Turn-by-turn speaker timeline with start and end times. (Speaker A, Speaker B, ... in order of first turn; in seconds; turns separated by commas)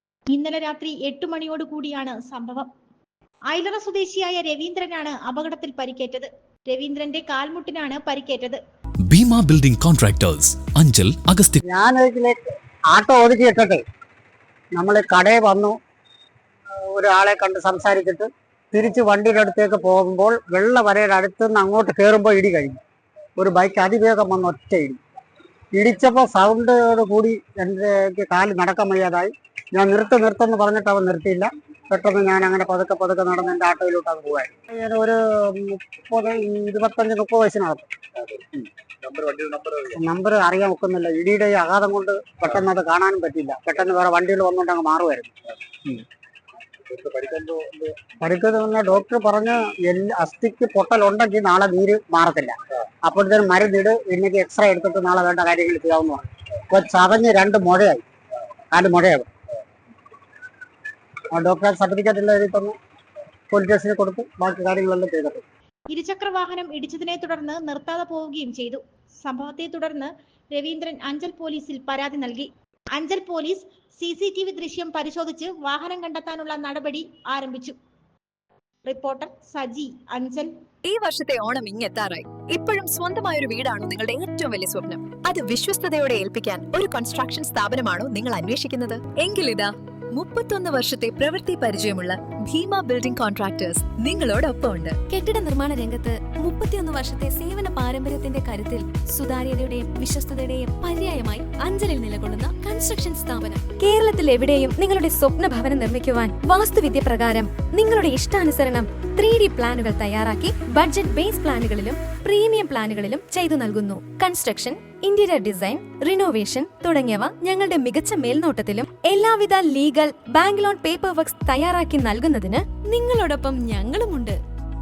Speaker A: 0.3-2.7, Speaker A: 3.5-8.6, Speaker B: 9.1-11.6, Speaker C: 11.7-13.8, Speaker C: 14.8-15.8, Speaker C: 16.8-22.8, Speaker C: 23.4-25.0, Speaker C: 25.7-37.9, Speaker C: 39.9-46.0, Speaker C: 47.2-58.0, Speaker C: 58.7-59.3, Speaker C: 61.3-62.8, Speaker C: 63.5-65.4, Speaker A: 65.9-77.8, Speaker A: 78.8-80.5, Speaker D: 80.8-95.0, Speaker E: 95.1-124.4